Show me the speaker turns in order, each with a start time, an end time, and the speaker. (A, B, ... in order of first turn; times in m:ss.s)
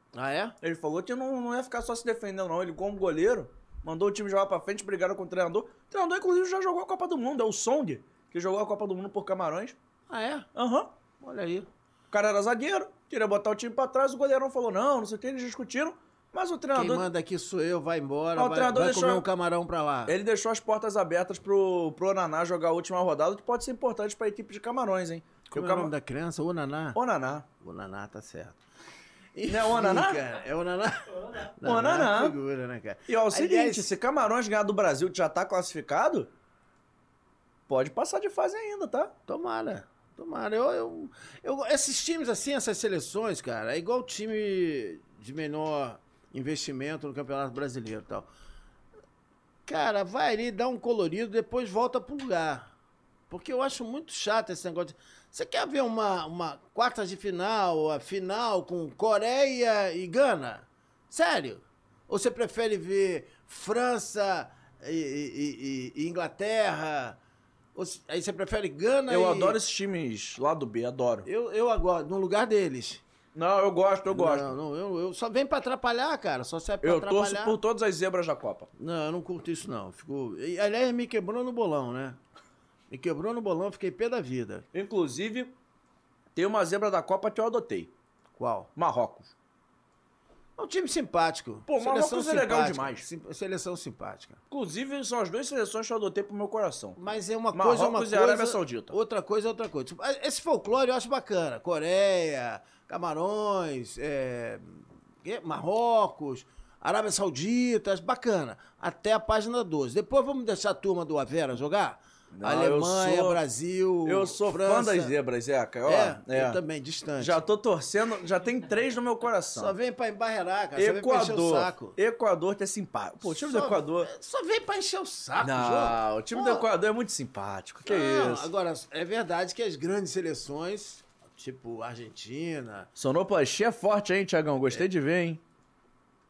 0:00.1-0:00.5 A
0:00.6-0:09.8 B
0:10.1-0:10.5 A
0:10.5-0:10.9 B
0:11.2-0:11.7 A
0:12.1-0:17.1 B
0:16.7-0:20.1 A
0:18.3-0:19.2 B
0:20.1-0:25.9 B
0:25.5-0:27.0 A
0:26.9-0:27.4 B
0:27.6-0:28.6 A
0:29.3-0:33.9 A
0:29.5-0:30.2 B
0:31.6-0:32.4 B
0:33.1-0:36.3 B
0:37.7-0:39.1 B
0:39.3-0:48.3 A
0:49.6-0:52.7 A
0:53.3-1:07.2 A
1:07.7-1:09.6 A
1:09.1-1:11.3 B
1:11.2-1:13.0 A
1:13.3-1:14.5 B
1:14.1-1:17.6 A
1:16.8-1:18.7 B
1:18.8-1:22.2 A
1:22.9-1:24.6 A
1:24.7-1:25.5 B
1:26.3-1:27.9 B
1:28.4-1:28.7 A
1:28.8-1:29.3 B
1:30.6-1:34.4 A
1:31.7-1:33.1 B
1:34.5-1:37.0 B
1:37.0-1:55.1 A
1:37.5-1:39.0 B
1:52.3-1:53.4 B
1:54.0-1:56.6 B
1:55.8-1:57.4 A
1:57.2-1:59.7 B
1:59.5-2:02.0 A
2:00.7-2:04.1 B
2:03.2-2:06.6 A
2:05.4-2:08.5 B
2:07.8-2:12.9 A
2:13.0-2:15.4 B